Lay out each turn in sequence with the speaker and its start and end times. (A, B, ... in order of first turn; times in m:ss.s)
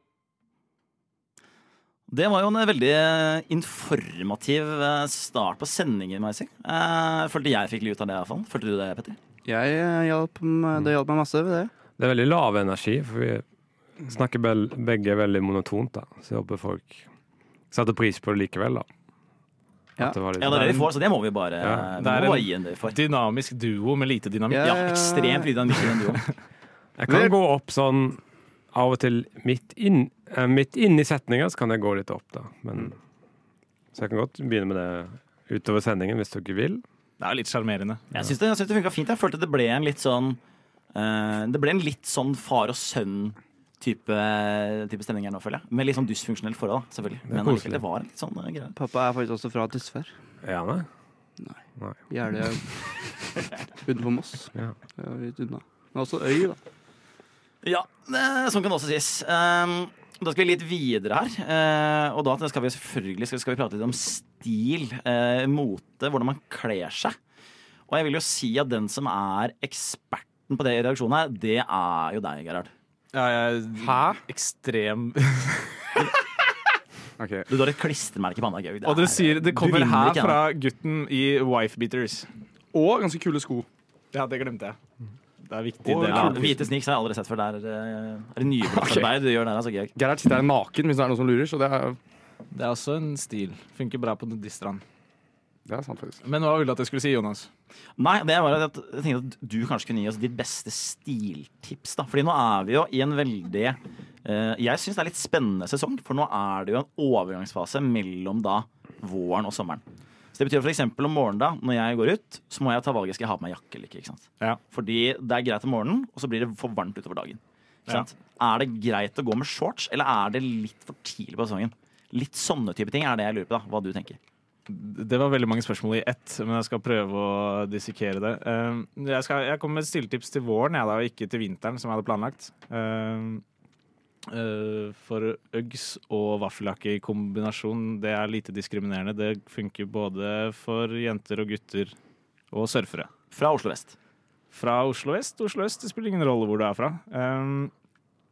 0:02.1-0:09.2 A
0:09.5-0:11.7 B
0:12.0-0:13.4 C
0:14.1-0:17.0 C
0:17.7-0:18.9 C
0:20.0-0:20.8 B
0:20.0-0:20.9 C
0:20.4-0:23.0 A
0:21.6-0:21.9 C
0:22.0-0:24.8 D
0:24.5-0:25.5 B
0:24.6-0:26.3 A
0:27.0-0:28.2 C
0:27.1-0:27.3 B
0:28.7-0:33.0 C
0:33.9-0:36.8 C
0:37.2-0:38.1 D
0:38.1-0:40.4 A
0:40.9-0:48.7 A
0:47.3-0:47.8 C
0:48.8-0:50.1 B
0:50.4-0:50.9 C
0:51.4-0:53.0 B
0:53.8-0:56.6 B
0:57.6-1:07.2 A
1:07.9-1:12.7 A
1:13.1-1:16.2 D
1:13.8-1:14.2 E
1:17.2-1:17.5 E
1:17.5-1:20.4 A
1:18.8-1:22.3 D
1:22.7-1:23.7 E
1:24.1-1:24.8 D
1:25.4-1:26.6 D
1:25.9-1:26.7 E
1:26.0-1:29.9 A
1:28.6-1:29.1 E
1:30.0-1:32.0 E
1:32.5-1:34.8 D
1:35.7-1:36.2 E
1:36.2-1:37.5 D
1:38.0-1:49.8 A
1:50.4-2:04.2 A
2:04.7-2:13.4 D
2:14.3-2:22.0 D
2:22.5-2:23.1 D
2:23.3-2:24.0 A
2:24.5-2:27.7 D